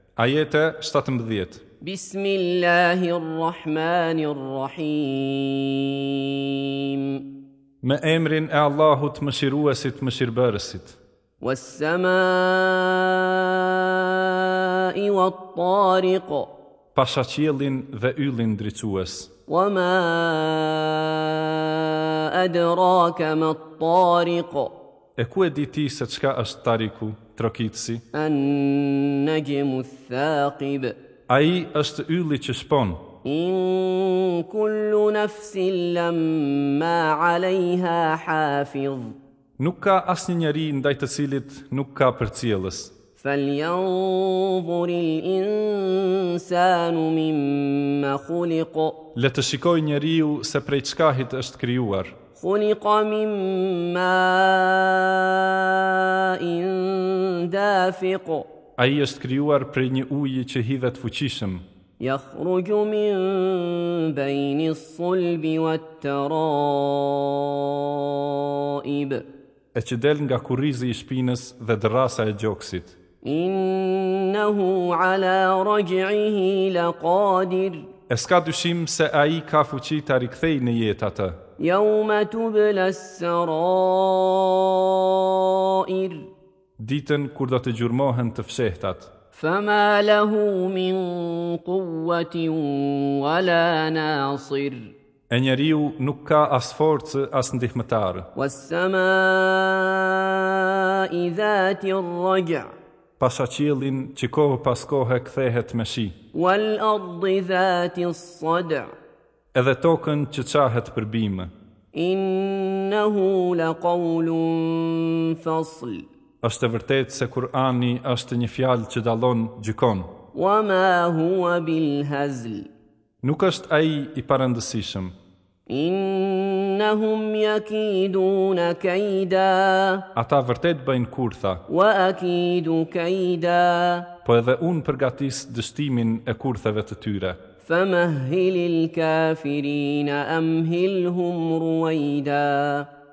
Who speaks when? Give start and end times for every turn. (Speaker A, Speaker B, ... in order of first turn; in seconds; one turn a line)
Speaker A: 0.2-1.6
Speaker B: 1.8-7.2
Speaker A: 7.8-11.0
Speaker B: 11.4-16.5
Speaker A: 16.9-19.3
Speaker B: 19.5-24.7
Speaker A: 25.2-28.0
Speaker B: 28.1-30.9
Speaker A: 31.3-33.0
Speaker B: 33.2-39.1
Speaker A: 39.6-42.9
Speaker B: 43.2-49.0
Speaker A: 49.1-52.1
Speaker B: 52.4-58.5
Speaker A: 58.8-61.6
Speaker B: 62.0-69.2
Speaker A: 69.7-72.9
Speaker B: 73.2-77.9
Speaker A: 78.1-81.4
Speaker B: 81.6-86.3
Speaker A: 86.8-89.1
Speaker B: 89.3-94.9
Speaker A: 95.3-98.3
Speaker B: 98.3-102.7
Speaker A: 103.2-106.1
Speaker B: 106.3-108.9
Speaker A: 109.5-111.5
Speaker B: 111.9-116.1
Speaker A: 116.4-120.1
Speaker B: 120.3-122.7
Speaker A: 123.2-125.1
Speaker B: 125.7-130.1
Speaker A: 130.1-131.6
Speaker B: 131.7-134.1
Speaker A: 134.2-137.4
Speaker B: 137.7-142.9